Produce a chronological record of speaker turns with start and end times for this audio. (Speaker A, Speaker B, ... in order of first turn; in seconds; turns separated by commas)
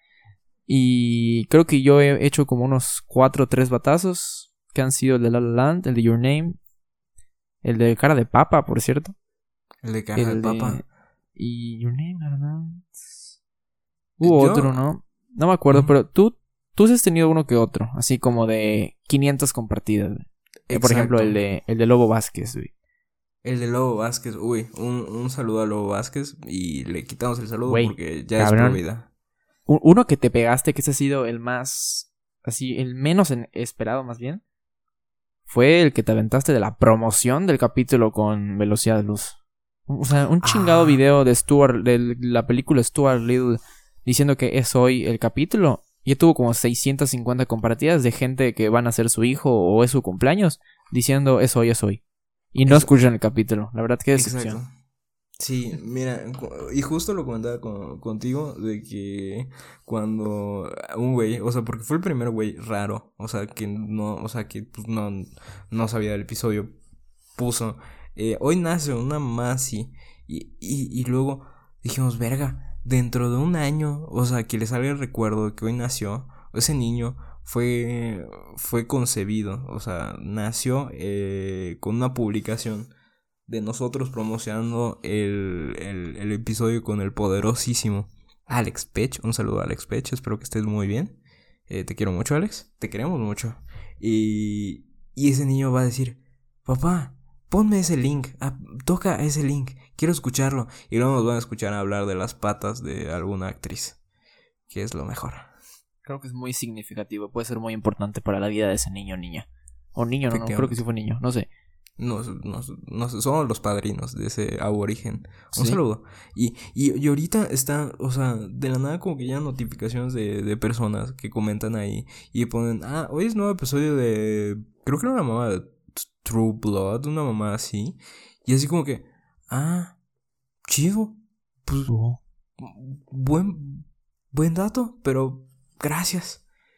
Speaker A: 0.7-6.6, Speaker A: 7.6-9.1, Speaker B: 9.8-10.8, Speaker A: 10.1-10.8, Speaker A: 11.3-13.3, Speaker A: 14.2-22.7, Speaker B: 14.2-14.8, Speaker B: 20.7-21.4, Speaker B: 23.4-29.1, Speaker A: 27.7-28.8, Speaker A: 29.7-34.4, Speaker A: 35.5-52.0, Speaker B: 40.4-41.0, Speaker A: 52.5-54.6, Speaker B: 52.6-52.9, Speaker B: 54.1-54.7, Speaker B: 55.4-66.7, Speaker B: 67.3-82.9, Speaker B: 83.5-104.0, Speaker B: 104.7-105.5, Speaker A: 106.0-111.5, Speaker B: 110.3-110.8, Speaker B: 112.0-130.0, Speaker A: 115.5-115.8, Speaker B: 130.7-131.9, Speaker A: 131.9-132.2, Speaker B: 132.6-136.4